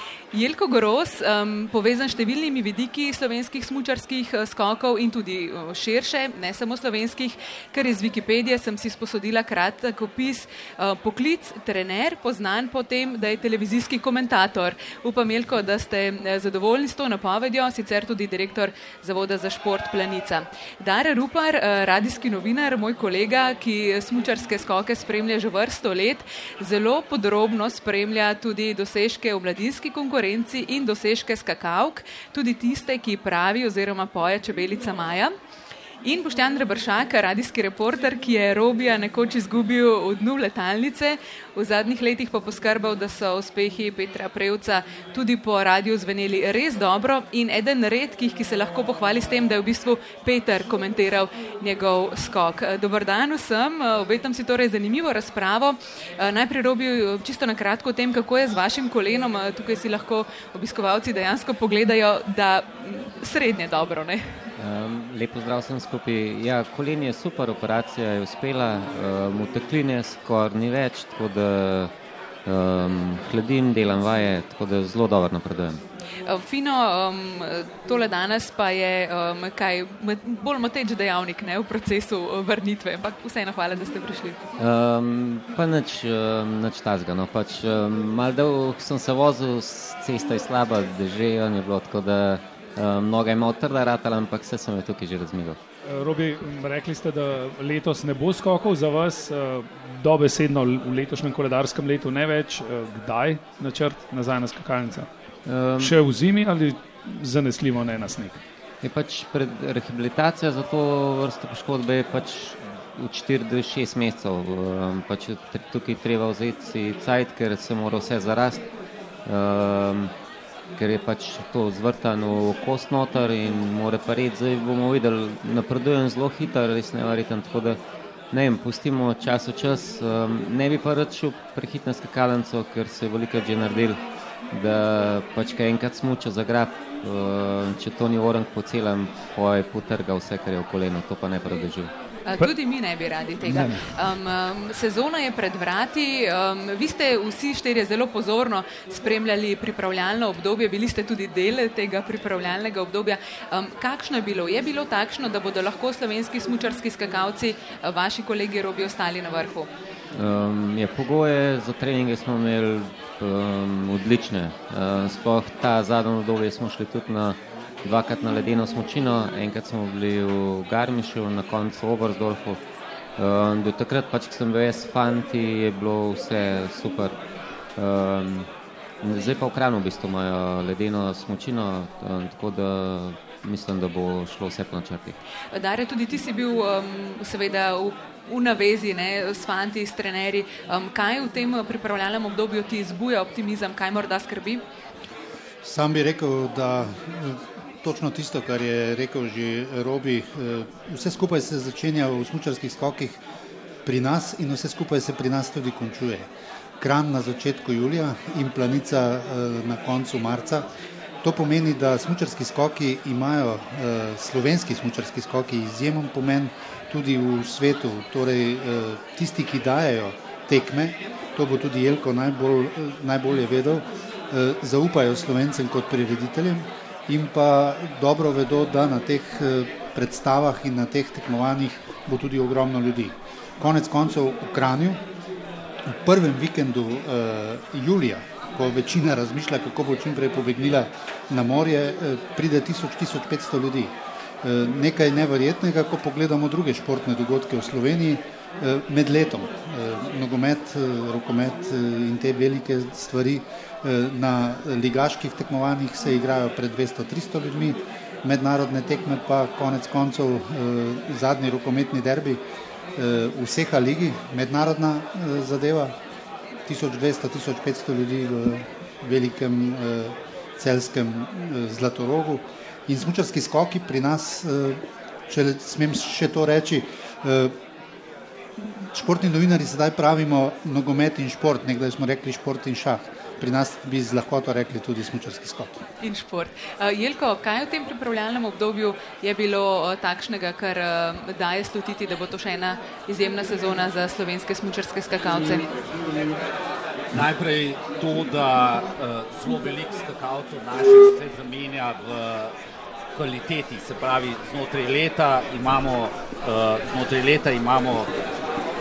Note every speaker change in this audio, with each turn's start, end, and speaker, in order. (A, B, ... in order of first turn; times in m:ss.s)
0:00.3-0:35.3 A
0:36.0-1:04.3 A
1:04.6-1:11.9 B
1:12.4-1:15.8 B
1:16.2-1:24.4 A
1:24.6-1:35.6 B
1:35.9-1:45.1 C
1:45.4-1:46.0 B
1:45.8-1:48.4 C
1:48.8-1:58.6 B
1:59.3-2:00.1 B
2:00.8-2:07.8 B
2:08.3-2:14.0 B
2:14.5-2:21.9 B
2:22.2-2:39.7 A
2:23.4-2:23.9 C
2:40.1-2:52.6 B
2:53.2-2:57.2 B
2:57.8-2:58.5 B
2:59.0-3:05.2 B
3:05.5-3:14.6 A
3:15.6-3:23.2 D
3:23.8-3:26.3 D
3:26.8-3:30.7 D
3:31.2-3:55.0 D
3:55.9-4:22.4 D
4:23.0-4:26.0 D
4:26.7-4:37.6 D
4:38.6-4:45.8 D
4:46.0-4:55.7 A
4:57.1-5:02.5 E
5:03.2-5:08.1 E